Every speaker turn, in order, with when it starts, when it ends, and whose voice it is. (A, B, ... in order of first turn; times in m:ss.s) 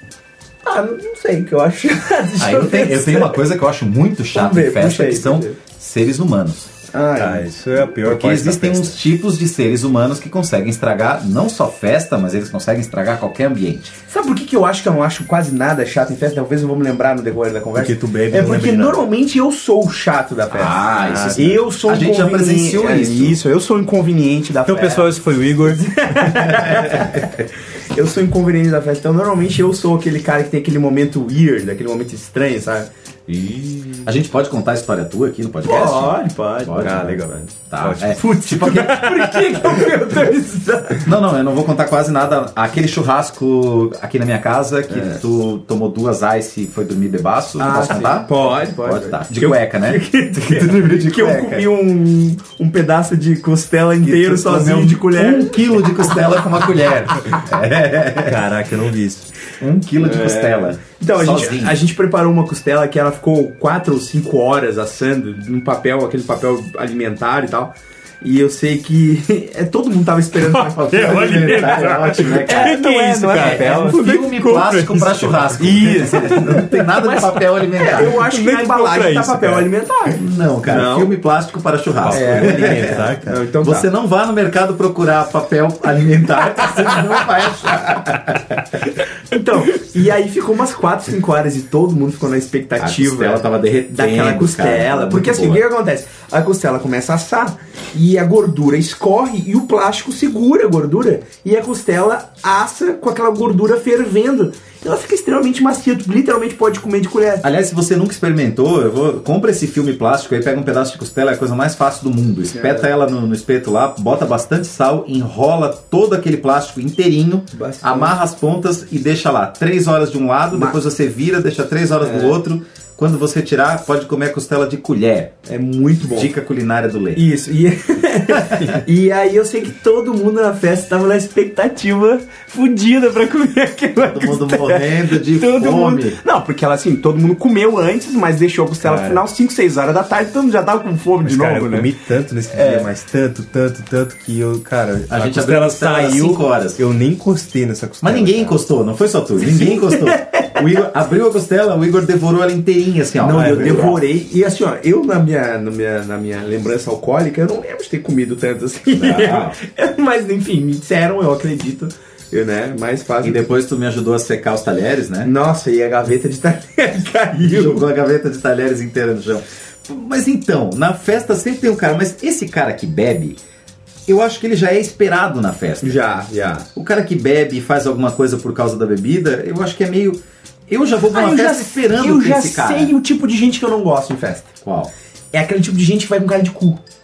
0:00.6-0:03.4 A
0:02.4-0:06.7 B
0:04.3-0:05.6 A
0:06.9-0:07.5 A
0:07.2-0:09.0 C
0:08.0-0:13.9 B
0:14.1-0:25.1 A
0:17.7-0:19.0 C
0:20.5-0:23.4 B
0:21.0-0:21.6 C
0:24.7-0:26.7 C
0:25.6-0:32.9 A
0:33.3-0:38.9 B
0:35.6-0:37.5 A
0:36.8-0:39.6 C
0:38.1-0:41.1 A
0:41.0-0:51.7 B
0:44.9-0:45.2 A
0:47.6-0:55.6 A
0:54.0-0:58.4 B
0:58.2-0:59.3 C
0:59.6-1:01.8 B
1:00.0-1:14.0 A
1:10.4-1:16.2 C
1:10.8-1:18.2 B
1:15.6-1:21.1 A
1:18.0-1:19.7 C
1:20.2-1:23.1 B
1:22.0-1:23.4 C
1:22.1-1:23.9 A
1:23.6-1:28.8 B
1:29.3-1:47.4 A
1:32.8-1:35.6 B
1:47.4-2:05.3 B
1:52.5-1:52.9 A
1:57.5-1:58.2 A
2:00.5-2:00.8 A
2:02.0-2:02.4 A
2:05.4-2:06.3 A
2:06.1-2:07.2 B
2:07.1-2:21.9 A
2:08.3-2:08.7 B
2:14.0-2:16.2 B
2:18.8-2:19.2 C
2:21.2-2:28.6 C
2:22.5-2:22.9 A
2:25.1-2:26.8 B
2:28.0-2:34.0 B
2:29.4-2:30.6 A
2:33.2-2:43.5 A
2:38.9-2:39.6 B
2:43.2-2:45.3 B
2:45.2-2:47.8 A
2:47.4-2:53.4 B
2:54.1-2:56.0 B
2:55.8-2:56.6 A
2:56.7-3:02.9 B
3:01.1-3:04.5 A
3:04.6-3:04.9 B
3:05.3-3:06.8 A